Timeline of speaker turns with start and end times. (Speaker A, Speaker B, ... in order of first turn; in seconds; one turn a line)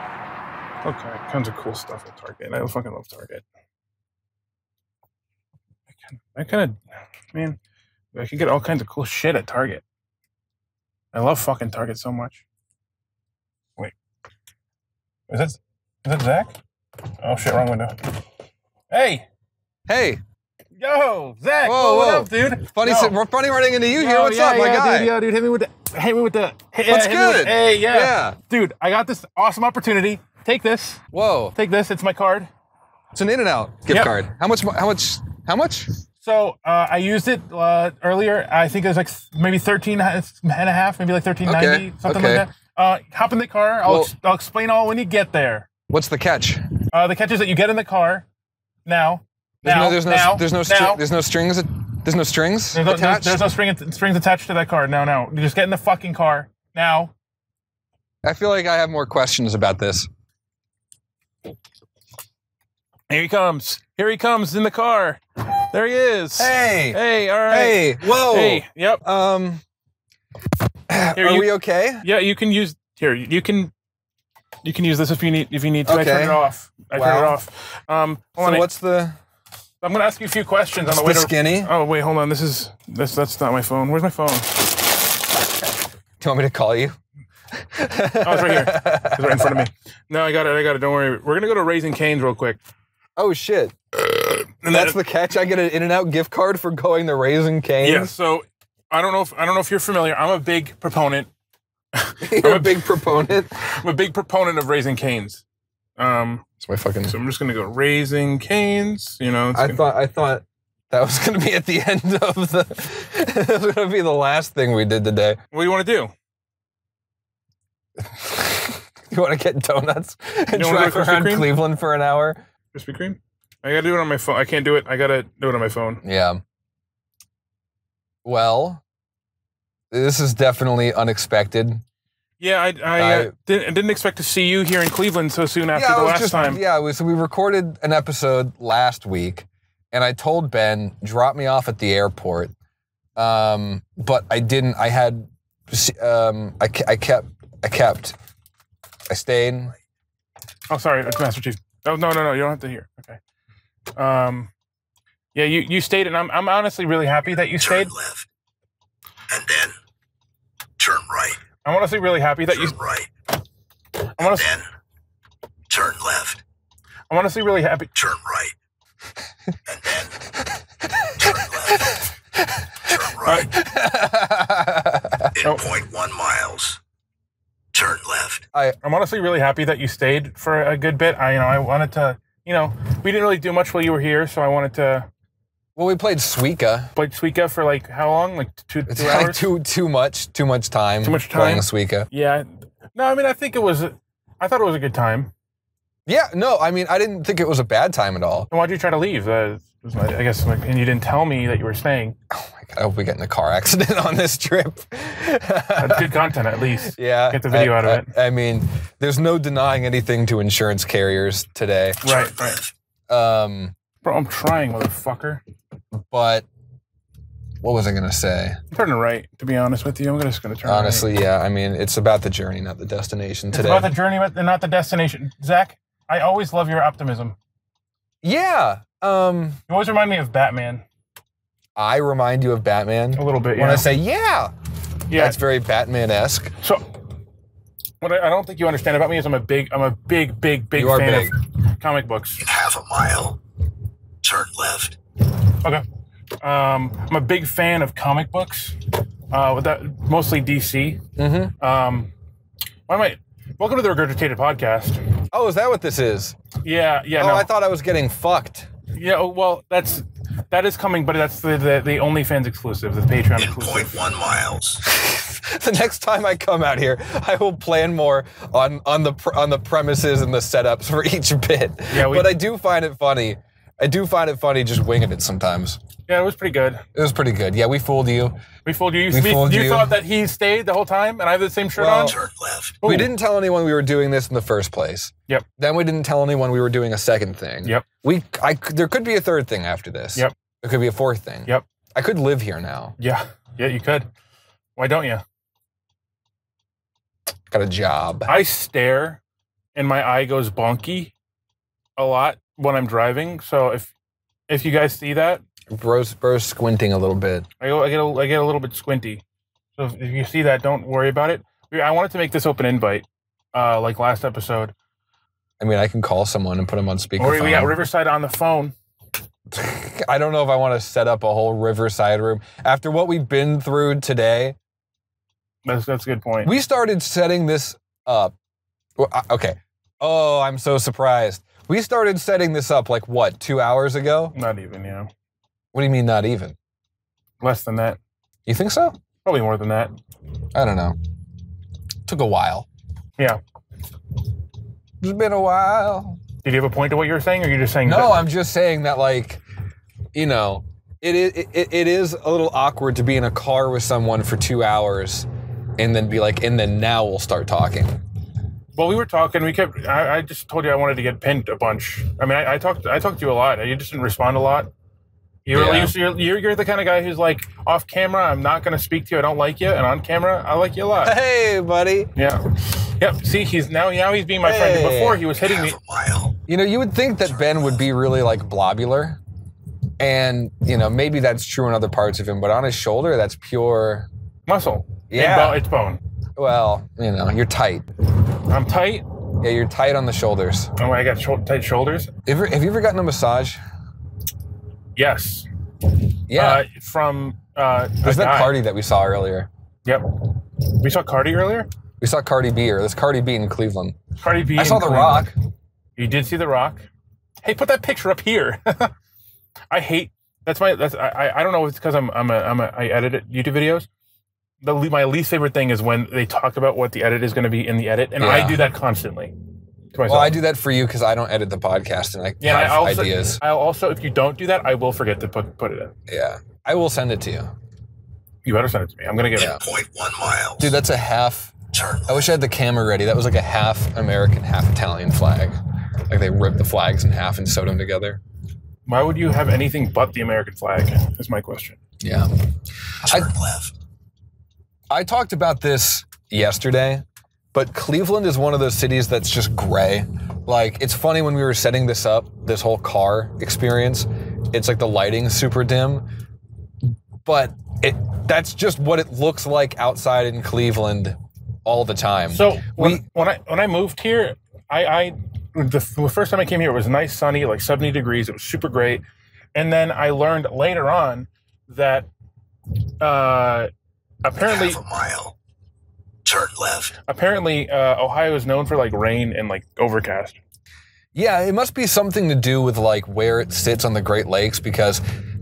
Speaker A: 0.8-3.4
Speaker A: 6.1-6.8
Speaker A: 7.3-7.6
Speaker A: 8.1-9.8
Speaker A: 11.1-12.4
Speaker A: 15.3-16.6
Speaker A: 17.2-18.2
Speaker A: 18.9-19.3
Speaker B: 19.9-20.2
Speaker A: 20.8-23.1
Speaker B: 21.6-25.1
Speaker A: 24.0-31.0
Speaker B: 26.9-28.4
Speaker B: 31.1-31.6
Speaker A: 31.6-32.5
Speaker B: 33.1-35.9
Speaker A: 33.9-34.1
Speaker A: 36.2-45.7
Speaker B: 41.4-42.5
Speaker B: 43.9-44.1
Speaker B: 45.9-46.7
Speaker A: 46.9-48.2
Speaker A: 48.9-51.0
Speaker B: 49.6-53.5
Speaker A: 52.7-57.1
Speaker B: 58.2-60.1
Speaker A: 63.1-69.0
Speaker B: 66.4-69.6
Speaker B: 70.9-72.1
Speaker A: 71.2-73.7
Speaker A: 74.6-78.7
Speaker B: 75.8-76.4
Speaker B: 76.9-77.4
Speaker B: 78.4-79.2
Speaker A: 79.8-84.7
Speaker B: 80.9-81.7
Speaker B: 86.2-87.0
Speaker B: 87.6-89.7
Speaker A: 88.2-92.6
Speaker B: 93.2-93.8
Speaker A: 94.6-95.0
Speaker B: 94.7-98.1
Speaker A: 97.8-101.3
Speaker A: 102.0-102.8
Speaker B: 102.2-103.5
Speaker A: 103.6-105.4
Speaker A: 106.0-106.4
Speaker B: 106.6-107.2
Speaker A: 107.0-109.8
Speaker B: 109.5-115.4
Speaker A: 115.5-116.1
Speaker B: 118.0-122.4
Speaker A: 120.5-121.5
Speaker A: 122.7-126.0
Speaker B: 126.0-126.4
Speaker B: 128.2-128.8
Speaker B: 129.9-131.8
Speaker A: 132.4-136.6
Speaker B: 133.0-133.3
Speaker B: 135.7-142.5
Speaker B: 143.2-148.2
Speaker B: 149.1-149.7
Speaker A: 150.7-153.2
Speaker A: 154.0-154.5
Speaker A: 155.3-157.9
Speaker C: 157.5-158.3
Speaker C: 159.3-159.8
Speaker C: 160.8-161.4
Speaker A: 161.7-162.8
Speaker C: 162.5-163.1
Speaker A: 164.2-164.5
Speaker C: 164.2-164.7
Speaker C: 165.7-166.4
Speaker A: 167.1-167.9
Speaker C: 167.9-168.6
Speaker C: 169.7-170.2
Speaker B: 171.0-171.3
Speaker C: 171.2-172.1
Speaker B: 171.8-175.3
Speaker C: 172.8-173.6
Speaker C: 175.3-176.8
Speaker C: 177.7-178.4
Speaker A: 178.8-185.1
Speaker B: 185.8-186.9
Speaker A: 186.9-189.5
Speaker B: 188.9-192.1
Speaker A: 191.0-195.3
Speaker B: 196.1-198.5
Speaker A: 198.5-202.2
Speaker B: 202.3-212.0
Speaker A: 205.8-208.1
Speaker A: 212.0-212.6
Speaker C: 212.0-212.7
Speaker B: 213.1-213.8
Speaker A: 214.0-215.4
Speaker B: 215.9-216.5
Speaker B: 217.6-218.6
Speaker A: 218.7-221.1
Speaker B: 220.6-223.9
Speaker A: 223.5-227.4
Speaker B: 228.2-229.6
Speaker A: 229.7-230.8
Speaker B: 231.8-234.5
Speaker A: 233.2-233.9
Speaker A: 235.1-235.4
Speaker B: 235.1-236.5
Speaker A: 236.6-237.0
Speaker A: 238.0-242.4
Speaker B: 240.8-241.4
Speaker C: 242.4-243.4
Speaker C: 244.2-245.0
Speaker A: 246.4-248.8
Speaker A: 249.3-251.0
Speaker B: 251.2-251.5
Speaker A: 251.6-252.1
Speaker A: 252.9-255.0
Speaker B: 255.3-256.4
Speaker A: 256.6-257.5
Speaker B: 257.2-258.7
Speaker A: 258.9-264.0
Speaker C: 263.4-264.8
Speaker B: 264.8-275.8
Speaker A: 271.9-272.3
Speaker A: 276.1-276.8
Speaker B: 276.9-278.4
Speaker A: 278.6-282.1
Speaker B: 279.1-280.0
Speaker B: 281.8-282.2
Speaker C: 282.1-282.8
Speaker A: 282.8-283.1
Speaker B: 282.8-292.9
Speaker A: 293.0-294.1
Speaker A: 294.8-295.2
Speaker B: 297.5-298.4
Speaker A: 298.3-299.2
Speaker A: 299.8-301.1
Speaker A: 302.0-303.9
Speaker A: 304.5-305.4
Speaker B: 305.7-307.5
Speaker A: 307.6-309.2
Speaker A: 309.8-314.7
Speaker B: 315.6-317.8
Speaker A: 317.2-318.7
Speaker B: 319.5-324.6
Speaker A: 325.6-326.5
Speaker B: 326.4-328.3
Speaker B: 329.0-334.4
Speaker A: 334.3-335.1
Speaker B: 335.7-336.6
Speaker A: 337.4-338.0
Speaker B: 338.5-339.0
Speaker A: 339.2-339.9
Speaker B: 340.5-341.0
Speaker B: 342.1-342.7
Speaker B: 345.0-346.2
Speaker A: 346.4-348.2
Speaker B: 347.9-349.4
Speaker B: 350.1-358.0
Speaker A: 358.8-364.7
Speaker A: 365.5-371.2
Speaker B: 365.5-365.9
Speaker B: 371.0-372.1
Speaker A: 372.2-375.8
Speaker B: 374.4-375.2
Speaker C: 375.4-376.4
Speaker B: 376.5-379.2
Speaker C: 377.4-377.8
Speaker B: 380.0-384.1
Speaker A: 384.5-386.0
Speaker B: 385.1-385.7
Speaker B: 386.4-387.9
Speaker A: 388.5-389.1
Speaker B: 389.4-390.7
Speaker A: 390.8-392.1
Speaker B: 392.2-393.6
Speaker A: 395.0-395.5
Speaker B: 396.3-396.6
Speaker A: 396.3-398.6
Speaker B: 398.0-399.5
Speaker A: 399.9-401.7
Speaker B: 402.0-404.0
Speaker A: 404.2-405.3
Speaker B: 404.6-405.4
Speaker A: 406.0-406.9
Speaker A: 407.4-408.9
Speaker A: 409.7-413.9
Speaker A: 414.6-419.3
Speaker B: 418.2-418.6
Speaker A: 419.9-420.4
Speaker B: 419.9-423.4
Speaker A: 422.4-425.9
Speaker B: 426.1-427.5
Speaker A: 428.4-429.6
Speaker B: 429.4-429.6
Speaker C: 429.4-430.8
Speaker B: 430.6-431.6
Speaker C: 431.7-432.4
Speaker B: 432.1-435.6
Speaker B: 436.1-438.2
Speaker A: 438.9-441.8
Speaker B: 442.0-442.3
Speaker C: 443.0-443.7
Speaker B: 443.1-443.3
Speaker B: 444.9-456.1
Speaker B: 456.8-463.0
Speaker A: 462.3-469.0
Speaker A: 469.6-472.1
Speaker A: 473.0-473.7
Speaker A: 474.2-474.8
Speaker C: 474.4-475.4
Speaker C: 476.2-477.0
Speaker A: 477.1-480.4
Speaker B: 481.1-485.0